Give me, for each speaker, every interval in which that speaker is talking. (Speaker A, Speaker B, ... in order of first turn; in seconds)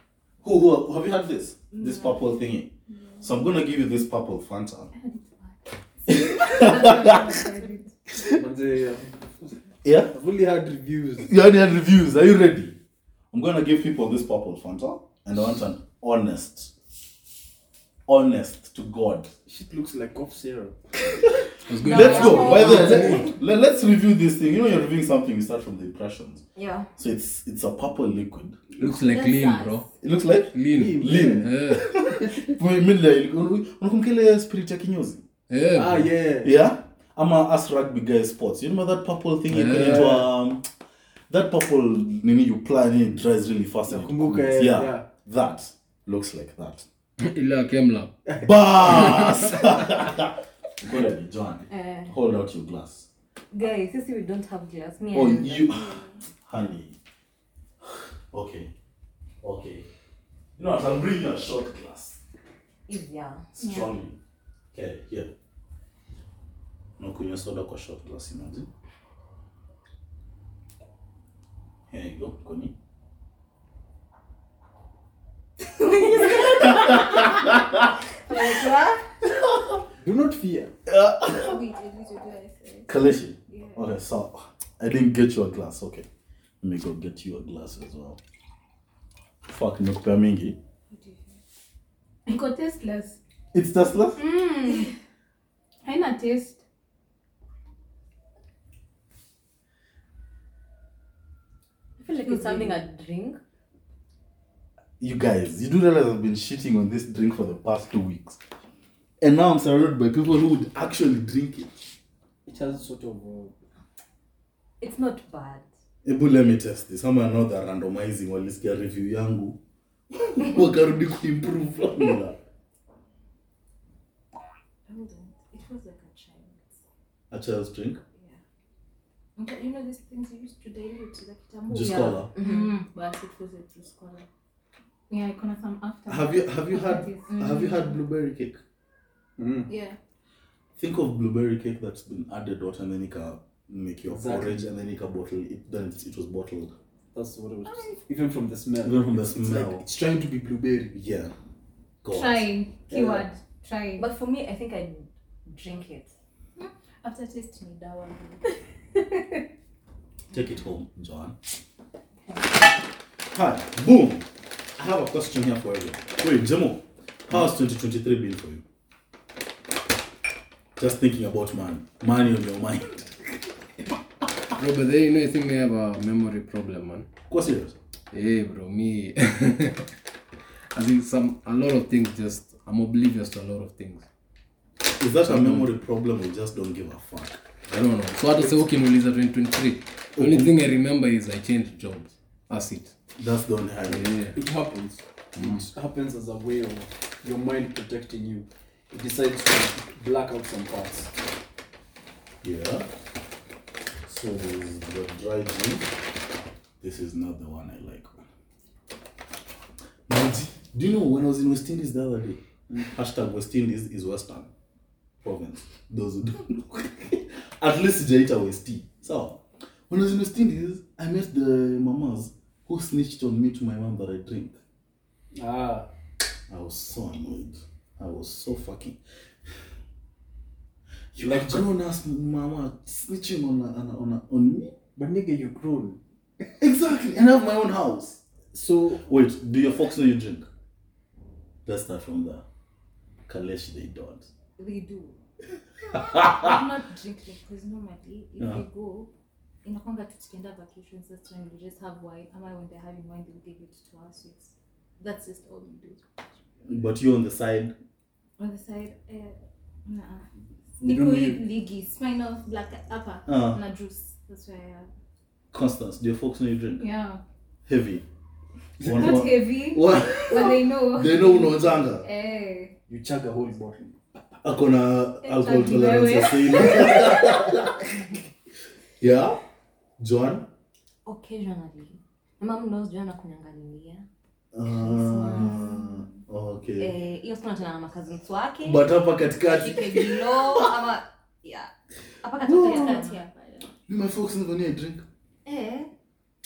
Speaker A: 0.4-4.9, 6.1-7.4, 9.8-10.1, 11.2-12.8, 13.3-16.7, 18.1-19.3, 21.8-26.4, 27.0-28.6, 30.0-35.2, 36.4-40.7, 41.3-46.9, 48.4-53.1, 55.1-57.0, 58.3-58.7, 59.4-59.9, 60.6-62.2, 63.6-64.2, 64.7-65.3, 67.0-68.7, 71.9-72.7, 76.2-77.9, 79.4-79.8, 80.9-81.6, 82.9-86.1, 86.6-88.2, 89.5-90.6, 93.5-94.2, 105.0-108.4, 109.2-111.7, 116.0-119.6, 120.1-122.4, 127.3-128.0, 131.7-132.3, 136.1-138.6, 140.8-146.7, 148.8-151.3, 152.0-152.5, 160.3-161.4, 163.3-168.6, 170.8-173.4, 177.3-177.8, 185.0-187.4, 190.2-190.6, 193.2-194.1, 195.3-195.7, 202.4-202.9, 204.1-205.9, 206.8-208.3, 210.1-214.5, 215.2-224.6, 226.5-229.0, 231.1-234.8, 236.6-238.2, 239.0-240.5, 241.7-242.4, 243.3-244.3, 245.9-246.6, 256.6-257.8, 263.3-263.6, 265.5-266.9, 267.7-268.1, 268.8-272.1, 274.4-277.9, 279.0-279.4, 280.0-280.5, 284.5-286.9, 288.6-290.7, 292.5-293.0, 293.9-295.1
Speaker B: 1.7-2.2, 3.0-3.2, 7.1-7.5, 28.8-29.9, 55.5-56.2, 81.3-82.9, 83.5-83.9, 90.9-91.4, 124.9-126.8, 128.2-128.4, 129.4-134.3, 139.7-140.0, 156.6-158.4, 244.6-245.2, 245.9-249.1, 249.6-256.3, 258.4-264.9, 292.6-293.7, 295.4-295.9
Speaker C: 4.9-7.9, 63.6-63.9, 76.1-76.9, 78.3-78.7, 92.3-93.2, 94.2-94.9, 95.8-96.6, 102.2-102.8, 132.4-132.8, 135.1-137.8, 152.1-154.1, 266.8-267.2, 268.8-272.7, 275.2-277.1, 285.2-285.6
Speaker D: 8.3-9.6, 10.1-11.3, 19.5-20.8, 22.2-23.2, 30.8-31.4, 35.7-36.5, 43.9-45.1, 80.0-80.7, 112.5-113.5, 139.4-139.7, 144.1-144.7, 147.1-150.9, 152.9-153.3, 194.3-201.1, 225.3-225.9, 231.2-231.7, 235.0-236.0, 238.5-239.1, 260.8-261.4, 268.8-269.1, 272.9-274.0
Speaker E: 21.7-23.3, 28.8-29.9, 30.5-31.9, 35.5-36.1, 39.5-40.3, 47.2-48.1, 174.6-177.1, 178.1-179.9, 180.8-184.1, 185.2-185.8, 187.7-192.9, 193.9-194.4
Speaker F: 21.8-23.3, 26.6-26.9, 53.5-55.7, 62.9-63.6, 78.3-79.0, 102.0-103.4, 114.8-115.7, 131.8-132.7, 154.0-156.1, 281.1-284.1, 284.7-285.8, 286.8-288.9, 289.4-291.7, 292.2-293.2